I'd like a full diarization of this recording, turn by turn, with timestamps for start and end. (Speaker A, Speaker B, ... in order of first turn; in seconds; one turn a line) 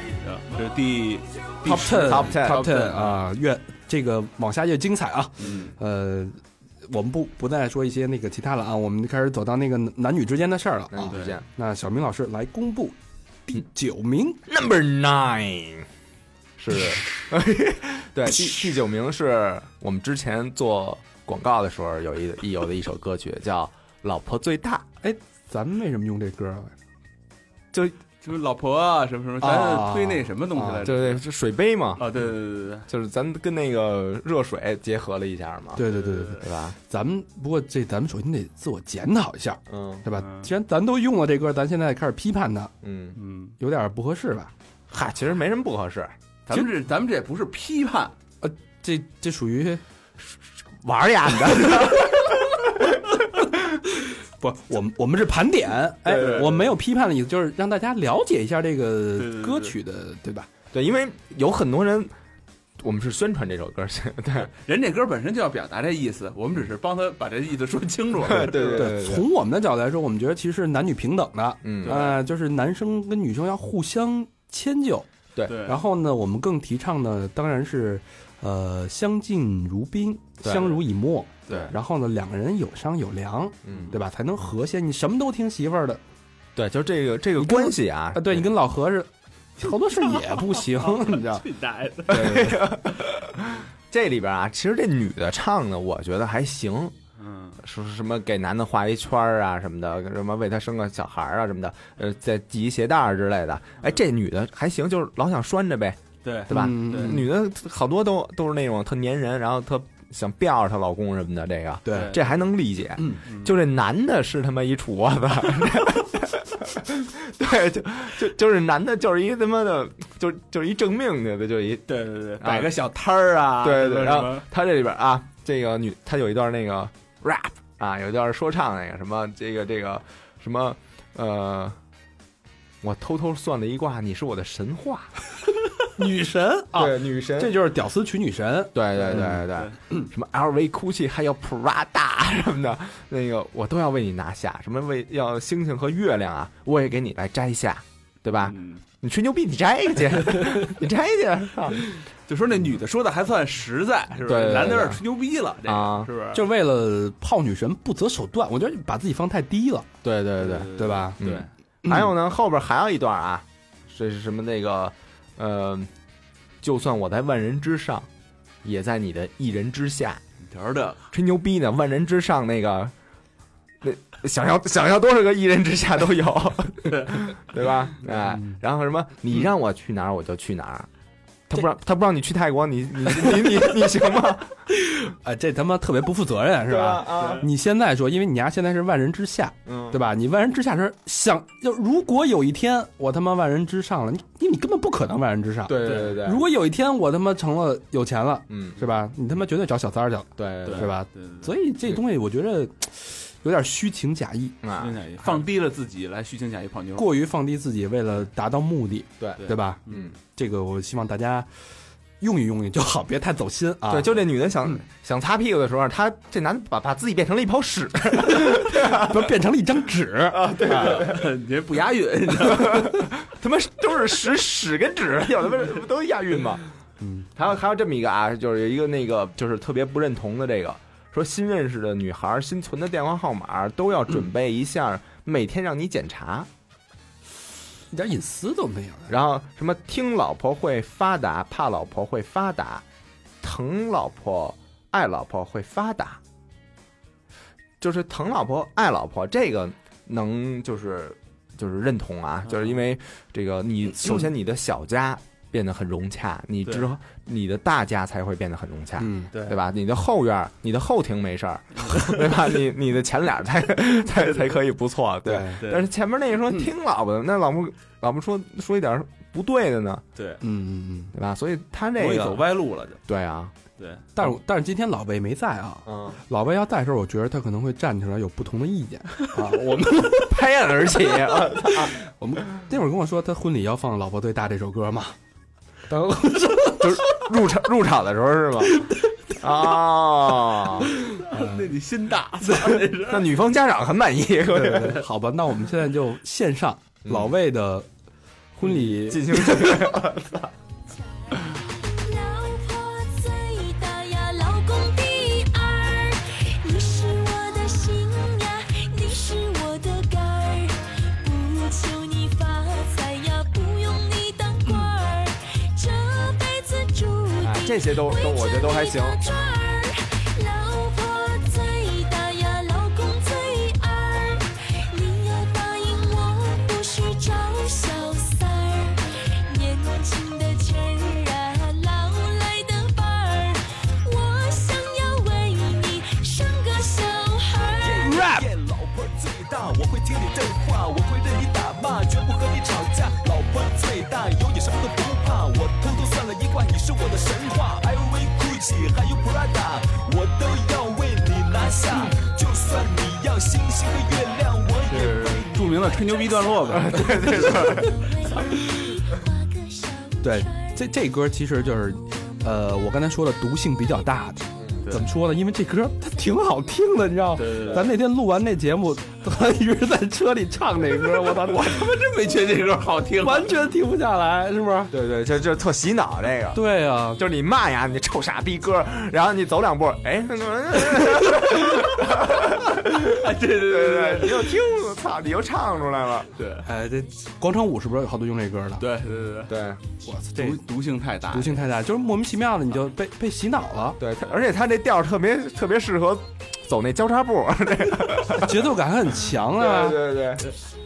Speaker A: 0.2-3.2
Speaker B: 1.6-2.7
Speaker C: 1.6-13.0
Speaker A: 5.4-5.8
Speaker B: 10.9-11.4
Speaker A: 11.1-11.4
Speaker C: 13.5-14.4
Speaker B: 14.5-15.9
Speaker B: 16.6-24.9
Speaker C: 25.0-26.7
Speaker A: 28.2-31.2
Speaker C: 29.4-30.9
Speaker B: 30.8-32.0
Speaker A: 32.0-32.9
Speaker B: 32.9-35.8
Speaker C: 35.8-42.7
Speaker A: 35.9-36.5
Speaker B: 36.4-36.8
Speaker B: 39.7-40.0
Speaker A: 40.2-40.5
Speaker B: 42.8-43.2
Speaker A: 43.2-43.6
Speaker C: 43.6-44.5
Speaker B: 44.9-46.1
Speaker A: 46.5-48.1
Speaker C: 48.4-49.8
Speaker B: 50.8-53.0
Speaker C: 54.4-60.5
Speaker A: 56.1-56.7
Speaker B: 56.1-56.5
Speaker A: 59.2-59.8
Speaker B: 60.7-62.1
Speaker B: 62.8-64.5
Speaker A: 64.6-68.9
Speaker B: 68.2-69.3
Speaker C: 68.7-75.1
Speaker B: 71.6-72.0
Speaker A: 71.8-72.2
Speaker A: 75.5-75.8
Speaker C: 75.6-86.0
Speaker B: 80.4-80.8
Speaker B: 83.7-84.0
Speaker B: 86.5-88.5
Speaker C: 87.4-91.5
Speaker A: 90.3-92.7
Speaker B: 92.1-97.0
Speaker A: 97.2-97.6
Speaker B: 97.6-122.7
Speaker A: 106.2-107.2
Speaker C: 106.5-107.3
Speaker C: 111.8-112.2
Speaker A: 111.9-112.4
Speaker A: 113.2-113.6
Speaker A: 121.9-124.5
Speaker B: 123.6-131.8
Speaker B: 132.8-135.1
Speaker C: 136.0-139.4
Speaker B: 136.7-137.6
Speaker B: 138.7-151.8
Speaker A: 139.1-139.8
Speaker A: 148.4-148.8
Speaker A: 152.3-156.4
Speaker B: 154.2-155.0
Speaker B: 155.6-156.1
Speaker C: 156.3-159.9
Speaker B: 160.0-165.9
Speaker A: 160.4-161.5
Speaker C: 160.7-161.2
Speaker C: 161.8-162.1
Speaker B: 166.6-168.1
Speaker B: 168.6-170.2
Speaker A: 170.4-171.1
Speaker B: 171.1-172.9
Speaker B: 173.8-180.9
Speaker A: 176.9-177.2
Speaker B: 181.5-184.6
Speaker C: 185.0-204.6
Speaker B: 186.7-187.5
Speaker A: 187.1-187.4
Speaker B: 189.7-190.0
Speaker B: 195.7-196.5
Speaker A: 195.8-196.2
Speaker B: 198.5-198.8
Speaker B: 200.4-200.9
Speaker A: 200.7-201.5
Speaker B: 204.6-205.0
Speaker A: 204.8-207.1
Speaker C: 207.0-209.8
Speaker B: 209.2-210.2
Speaker A: 209.4-210.1
Speaker C: 210.4-211.5
Speaker C: 212.2-214.2
Speaker B: 213.9-219.3
Speaker C: 218.3-221.0
Speaker B: 220.3-221.3
Speaker A: 220.6-223.1
Speaker B: 222.4-226.6
Speaker C: 227.0-227.3
Speaker B: 227.3-236.5
Speaker C: 237.9-239.1
Speaker B: 239.1-242.8
Speaker B: 243.4-246.2
Speaker B: 247.8-270.0
Speaker A: 252.5-252.8
Speaker C: 259.0-259.3
Speaker A: 259.3-259.6
Speaker C: 265.2-265.6
Speaker A: 265.6-265.9
Speaker A: 270.1-270.4
Speaker C: 270.4-271.1
Speaker B: 271.1-272.5
Speaker A: 272.0-273.0
Speaker B: 273.1-273.5
Speaker A: 273.8-274.1
Speaker C: 274.2-280.3
Speaker B: 275.9-276.2
Speaker B: 280.1-281.9
Speaker C: 281.7-285.2
Speaker C: 285.9-287.0
Speaker B: 286.8-288.9
Speaker B: 289.4-290.9
Speaker A: 291.1-293.4
Speaker C: 291.2-291.7
Speaker B: 293.0-295.0
Speaker C: 294.5-297.9
Speaker B: 297.1-297.4
Speaker C: 298.6-299.9
Speaker B: 298.7-300.5
Speaker D: 301.4-338.1
Speaker B: 317.4-319.2
Speaker E: 337.8-356.0
Speaker C: 338.0-338.5
Speaker A: 354.9-358.0
Speaker D: 356.1-360.7
Speaker B: 356.7-358.0
Speaker C: 360.2-371.9
Speaker B: 364.6-364.9
Speaker A: 364.9-365.1
Speaker A: 367.4-367.9
Speaker A: 371.4-373.5
Speaker C: 373.2-374.9
Speaker B: 374.9-376.6
Speaker C: 376.5-377.2
Speaker B: 377.2-386.3
Speaker A: 382.9-384.6
Speaker A: 386.4-386.7
Speaker C: 386.6-388.8
Speaker A: 388.8-389.6
Speaker B: 389.5-389.8
Speaker C: 390.0-390.6
Speaker A: 390.4-391.6
Speaker C: 391.3-394.0
Speaker B: 394.0-398.7
Speaker C: 398.4-400.1
Speaker B: 399.5-400.5